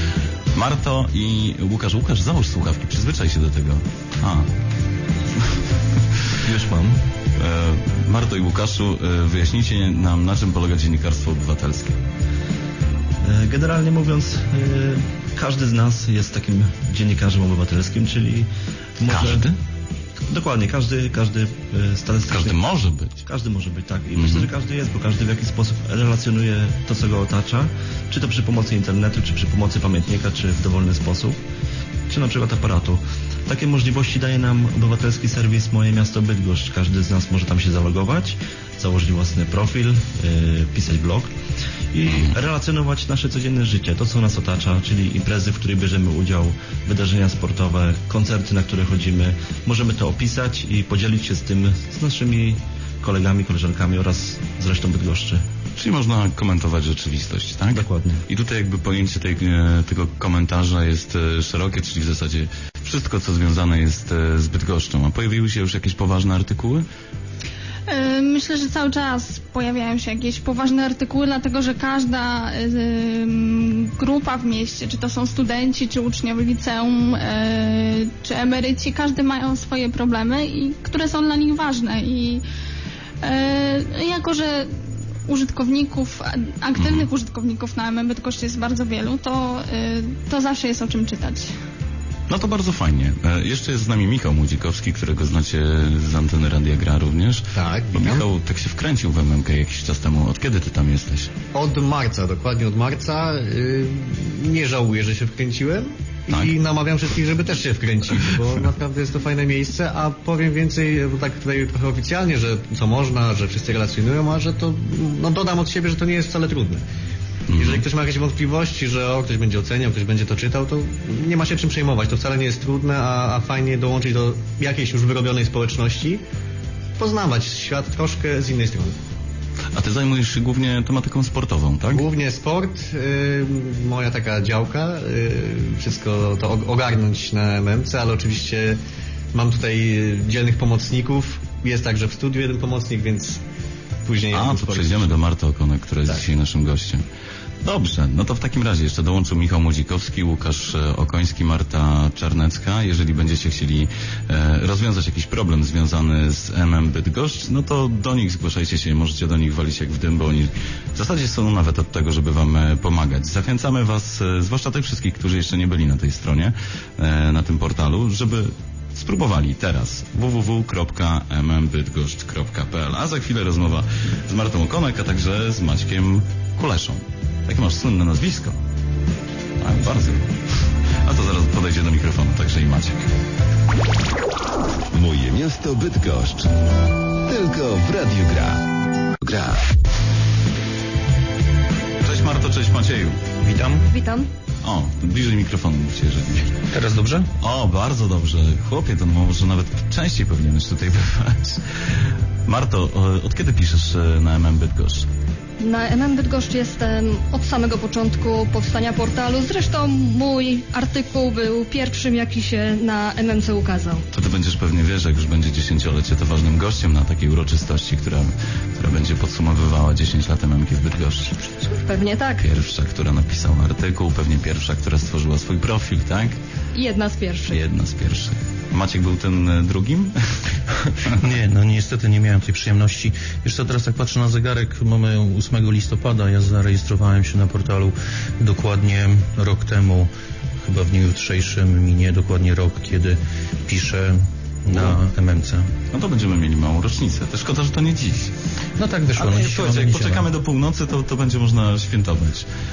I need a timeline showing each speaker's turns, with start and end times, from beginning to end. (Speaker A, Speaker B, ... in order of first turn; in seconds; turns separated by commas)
Speaker A: 0.5-4.5, Speaker B: 6.4-7.0, Speaker A: 7.4-12.0, Speaker B: 13.2-18.5, Speaker B: 19.0-19.5, Speaker A: 19.1-19.5, Speaker B: 20.2-31.4, Speaker A: 22.3-23.2, Speaker A: 24.1-24.5, Speaker B: 32.1-41.3, Speaker B: 41.9-55.4, Speaker A: 55.8-66.8, Speaker B: 57.7-58.2, Speaker C: 67.9-82.4, Speaker C: 83.2-84.7, Speaker C: 85.3-91.5, Speaker A: 86.8-87.1, Speaker A: 92.3-101.3, Speaker D: 97.5-98.2, Speaker D: 101.5-116.8, Speaker A: 117.5-117.8, Speaker D: 117.5-126.2, Speaker D: 127.0-128.9, Speaker A: 129.7-132.0, Speaker D: 131.9-138.8, Speaker D: 139.3-143.4, Speaker D: 144.0-145.1, Speaker A: 144.3-147.0, Speaker A: 147.6-178.6, Speaker A: 179.6-180.3, Speaker A: 181.0-183.1, Speaker E: 184.9-186.5, Speaker E: 187.2-188.6, Speaker E: 189.2-189.6, Speaker A: 192.0-193.2, Speaker F: 193.4-193.8, Speaker G: 193.9-194.3, Speaker A: 194.6-196.6, Speaker F: 196.7-197.3, Speaker A: 197.4-201.6, Speaker A: 202.4-205.1, Speaker G: 205.6-214.0, Speaker A: 214.1-221.3, Speaker G: 221.6-222.4, Speaker A: 222.4-226.4, Speaker G: 226.7-227.6, Speaker A: 227.5-230.2, Speaker F: 231.2-240.1, Speaker F: 240.6-245.7, Speaker A: 244.7-245.0, Speaker A: 245.9-248.3, Speaker F: 248.8-250.3, Speaker A: 249.1-252.5